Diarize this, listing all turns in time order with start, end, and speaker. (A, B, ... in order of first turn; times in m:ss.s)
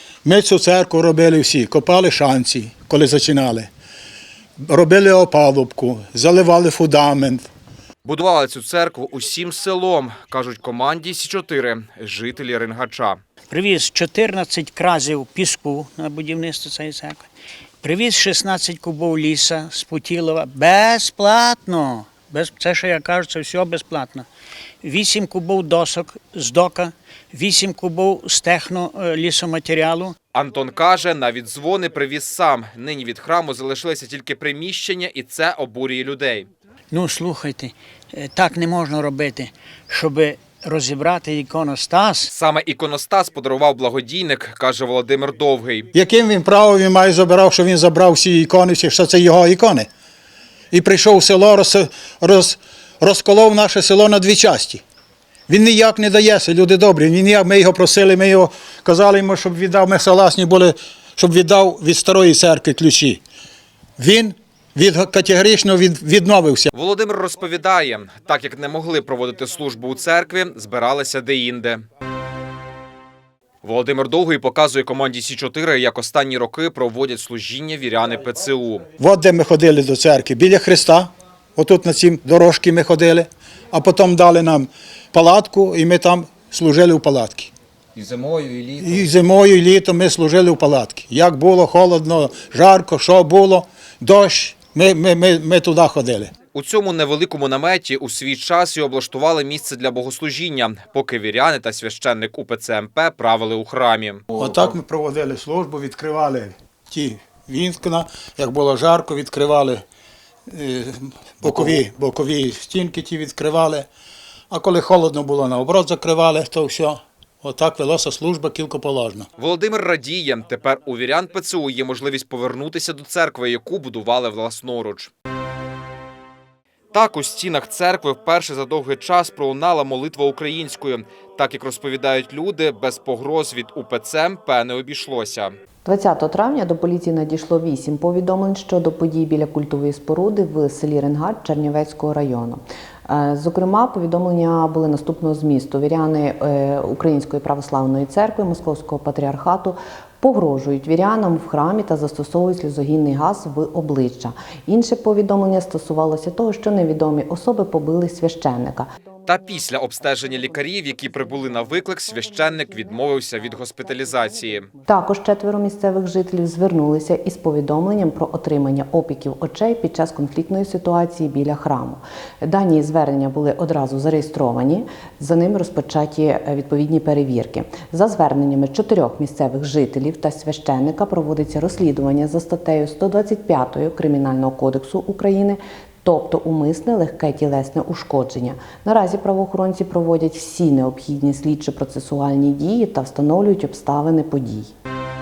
0:00.2-0:03.7 A
0:04.6-0:07.5 A
0:08.0-0:13.2 B
0:13.5-0:17.3 C
0:17.8-0:24.3 C
0:24.8-0:30.2 C
0:30.3-0:36.5 B
0:36.9-0:42.3 C
0:42.3-0:45.9 B
0:45.9-0:49.9 A
0:50.7-0:54.8 A
0:55.5-1:03.2 A
1:04.0-1:06.7 A
1:06.7-1:11.8 B
1:13.6-1:18.9 B
1:19.0-1:27.5 A
1:28.0-1:28.7 B
1:28.8-1:36.3 A
1:36.5-1:44.3 B
1:44.4-1:49.8 A
1:50.5-1:53.9 A
1:54.5-1:59.3 A
1:59.4-2:05.1 B
2:06.9-2:15.6 B
2:15.8-2:39.0 D
2:39.2-2:44.7 B
2:44.2-3:14.7 D